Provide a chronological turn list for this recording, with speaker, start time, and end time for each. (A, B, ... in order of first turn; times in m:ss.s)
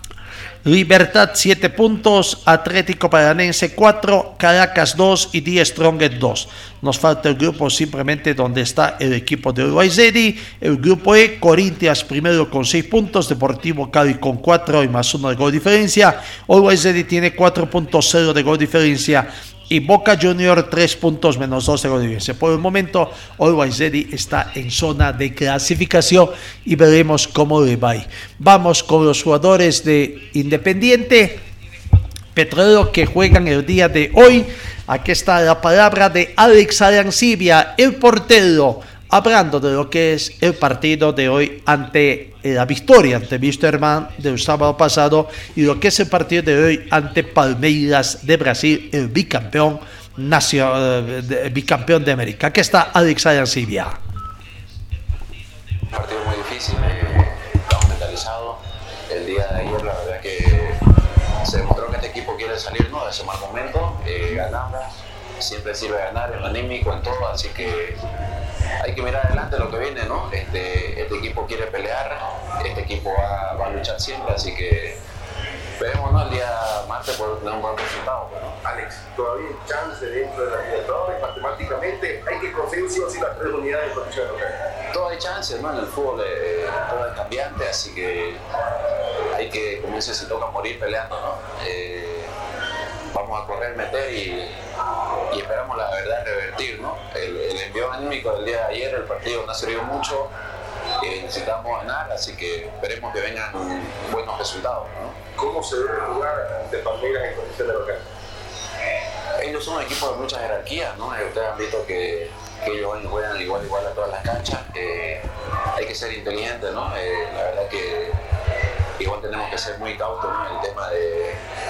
0:00.6-0:31.4 A
0:32.4-0:54.0 A
0:55.9-1:00.8 B
1:01.4-1:08.0 B
1:08.8-1:15.0 B
1:15.8-1:18.6 B
1:18.6-1:24.6 C
1:24.9-1:28.4 B
1:29.3-1:32.3 B
1:33.1-1:34.6 B
1:35.3-1:40.3 B
1:41.0-1:45.2 B
1:45.4-1:48.0 C
1:49.4-1:58.2 B
1:59.0-2:01.4 B